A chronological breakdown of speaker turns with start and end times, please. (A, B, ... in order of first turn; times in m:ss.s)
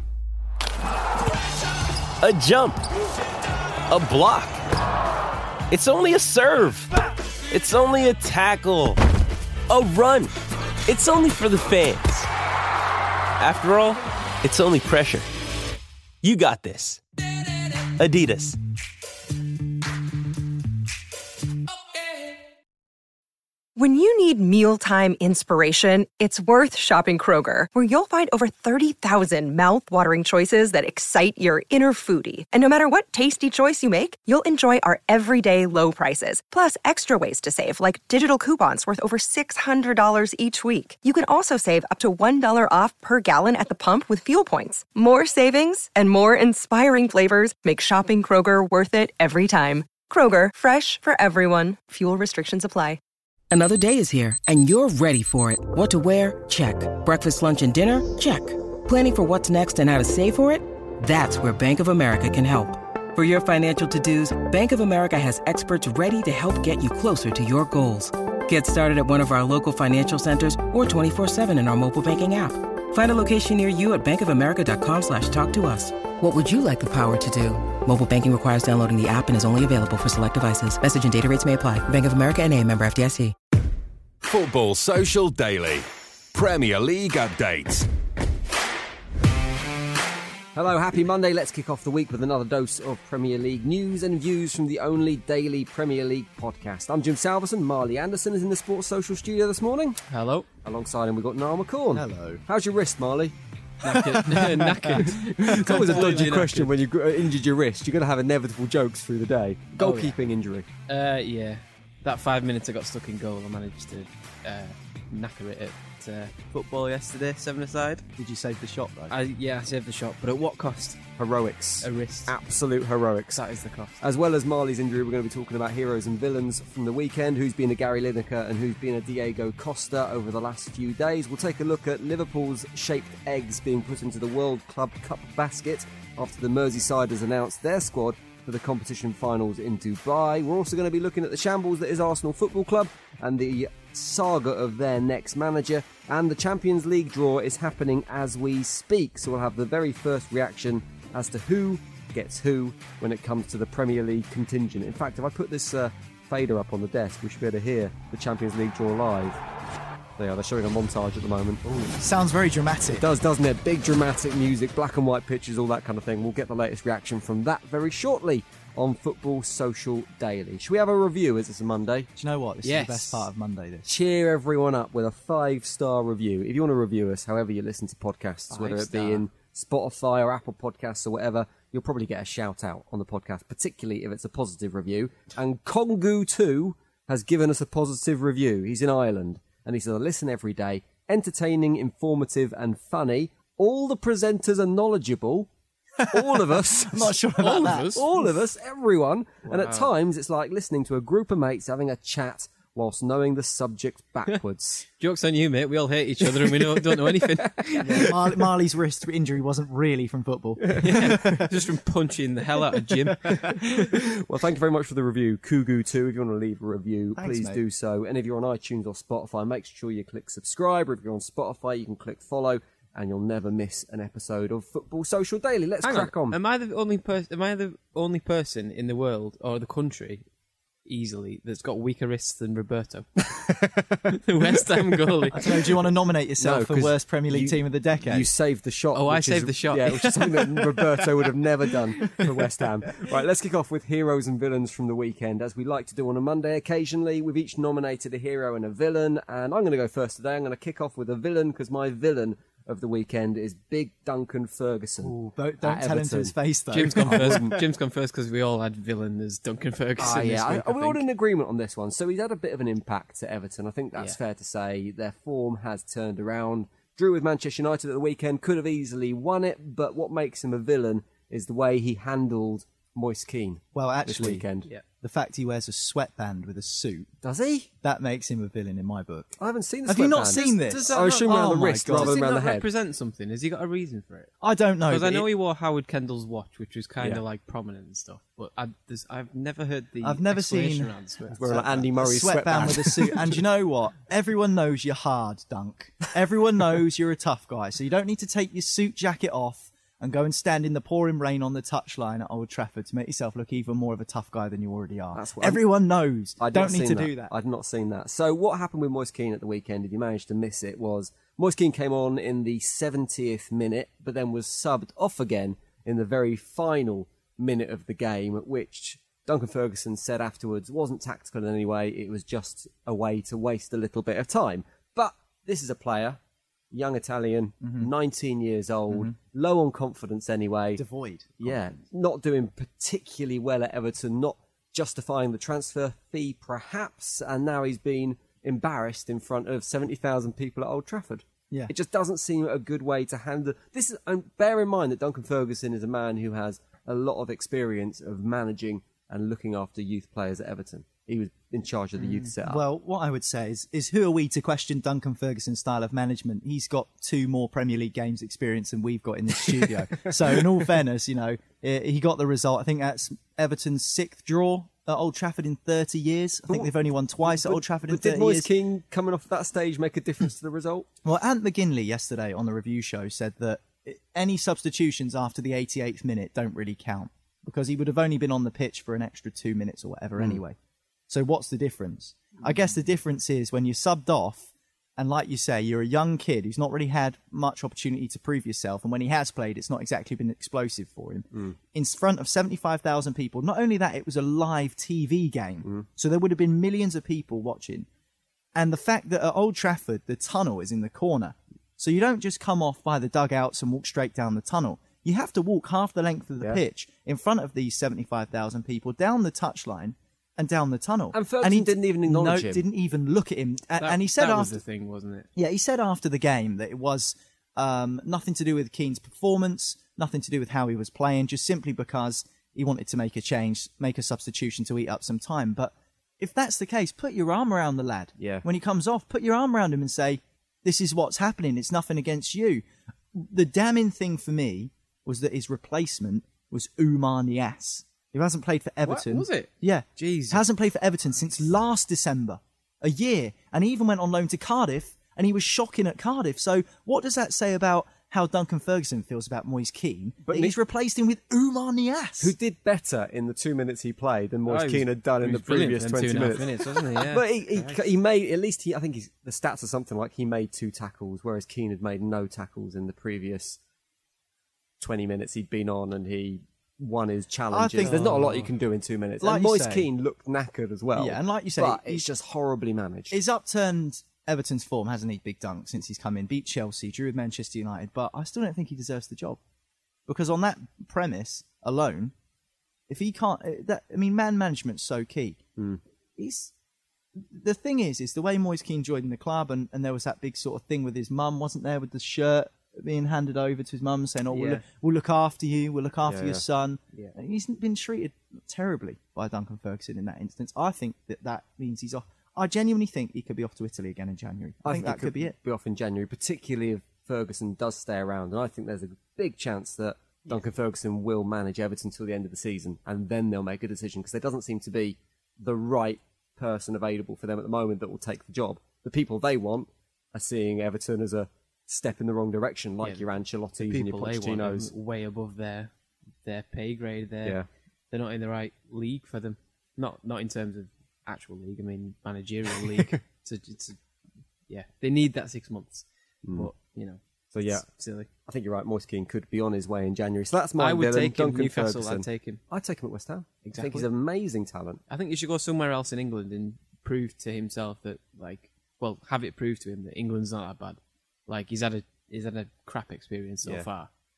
0:02.2-0:02.8 A
0:03.9-0:04.6 A
0:05.7-0:07.0 A
0:07.5-0:09.0 A
0:09.7-0:10.3 A
0:10.9-0:12.3 A
0:13.4-0:15.3 A
0:16.2-0:17.0 A
0:17.8-0:18.6 A
0:23.8-0:53.0 B
0:53.5-1:23.3 C
1:24.2-1:27.9 D
1:30.6-1:40.0 E
1:40.1-1:40.5 F
1:40.6-1:43.3 E
1:41.9-1:42.4 G
1:43.8-1:46.7 F
1:43.9-1:46.1 G
1:45.0-1:50.7 E
1:49.8-1:50.2 F
1:50.9-1:58.0 F
1:58.2-1:59.2 G
1:59.1-2:01.0 F
2:01.2-2:03.4 E
2:01.8-2:02.3 F
2:03.3-2:04.0 F
2:04.0-2:39.4 E
2:40.2-2:41.8 E
2:41.8-2:43.1 G
2:43.0-2:52.1 E
2:52.2-2:53.9 G
2:52.6-2:53.3 F
2:53.9-3:15.5 E
2:58.5-2:59.2 F
3:16.0-3:18.2 G
3:16.1-3:24.9 E
3:17.4-3:18.0 F
3:19.5-3:19.9 F
3:25.0-3:28.2 F
3:26.3-3:27.8 E
3:27.8-3:31.5 G
3:30.7-3:31.1 E
3:30.8-3:33.9 F
3:33.1-3:33.4 G
3:33.9-3:46.4 E
3:37.2-3:37.6 G
3:45.8-3:50.2 F
3:50.9-3:53.1 F
3:54.1-3:55.5 F
3:55.3-3:58.3 G
3:56.4-4:16.3 E
3:58.9-4:00.8 F
4:02.0-4:02.2 F
4:15.0-4:17.5 G
4:16.7-4:21.0 F
4:17.0-4:17.6 E
4:20.0-4:34.7 E
4:33.8-4:34.4 G
4:35.0-4:37.1 G
4:37.2-4:37.7 E
4:37.8-4:42.2 G
4:39.4-4:42.7 E
4:40.3-4:41.3 F
4:41.9-4:44.3 F
4:44.4-4:45.3 G
4:44.9-4:51.6 F
4:50.0-5:07.3 G
4:51.4-4:53.4 E
5:05.1-5:05.6 E
5:06.4-5:26.2 E
5:26.7-5:30.8 E
5:27.6-5:27.9 G
5:30.8-5:31.7 G
5:31.4-5:52.6 E
5:52.1-6:08.5 G
6:00.0-6:00.5 E
6:06.5-6:10.9 E
6:11.0-6:20.6 G
6:21.1-6:37.9 G
6:38.5-6:54.6 G
6:51.1-6:52.6 E
6:53.8-6:55.3 F
6:55.4-7:32.3 G
7:08.2-7:08.4 E
7:18.8-7:20.4 F
7:30.3-7:30.5 E
7:32.2-7:43.6 E
7:34.5-7:37.8 F
7:44.8-7:53.2 E
7:47.5-7:48.4 G
7:47.8-7:48.5 F
7:49.2-7:49.9 G
7:50.9-7:52.0 G
7:53.1-7:59.4 G
8:00.1-8:02.1 G
8:02.9-8:05.4 G
8:06.2-8:06.5 G
8:07.1-8:25.3 G
8:14.3-8:14.6 F
8:16.0-8:16.4 E
8:24.6-8:44.7 E
8:42.8-8:45.7 F
8:46.2-8:47.4 F
8:47.9-8:53.8 F
8:54.5-8:58.1 F
8:56.2-8:56.5 E
8:57.3-8:57.6 E
8:58.2-9:04.8 E
9:00.6-9:02.4 F
9:03.4-9:03.9 F
9:04.9-9:13.9 F